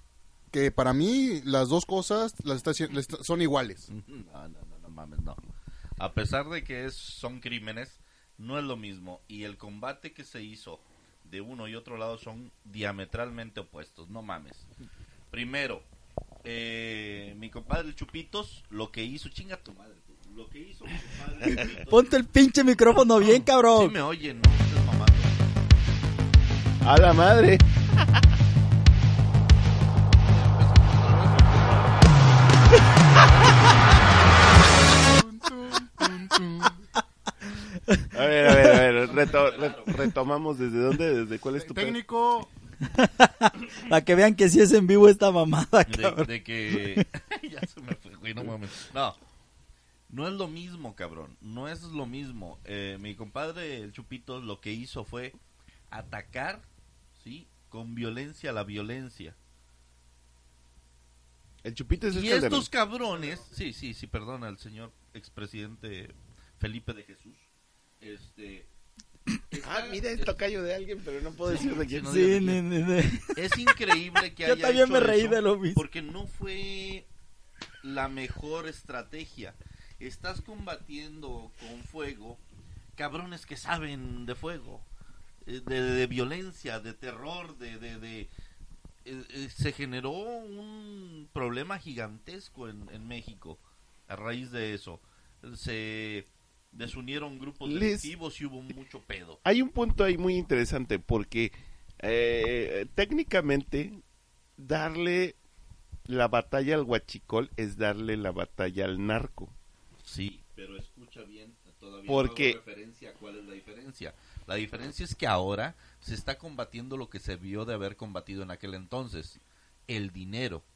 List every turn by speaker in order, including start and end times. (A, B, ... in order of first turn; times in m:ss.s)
0:00.5-0:03.9 A
0:03.9-0:05.4 B
0:06.0-0:14.7 B
0:15.3-0:15.8 B
0:16.4-0:22.0 B
0:21.6-0:24.0 C
0:23.2-0:25.3 B
0:26.8-0:27.6 D
0:30.1-0:32.1 B
0:34.8-0:36.8 A
0:37.7-0:38.8 C
0:38.1-0:42.0 D
0:39.0-0:40.0 B
0:41.6-0:42.5 A
0:42.9-0:47.0 C
0:45.9-0:49.2 B
0:50.1-0:55.4 B
0:55.9-0:56.6 B
0:57.2-0:59.4 B
1:01.6-1:02.7 D
1:02.1-1:07.5 B
1:03.2-1:03.4 A
1:08.0-1:08.7 B
1:09.5-1:10.3 B
1:09.6-1:12.1 D
1:11.5-1:12.6 B
1:12.1-1:13.8 C
1:13.4-1:17.1 B
1:14.4-1:15.8 C
1:17.8-1:22.4 B
1:23.0-1:24.9 B
1:25.4-1:28.3 B
1:29.0-1:39.4 B
1:37.6-1:38.1 D
1:39.4-1:44.0 D
1:44.6-1:45.4 D
1:46.1-1:49.6 D
1:50.0-2:00.6 B
1:52.1-1:52.6 D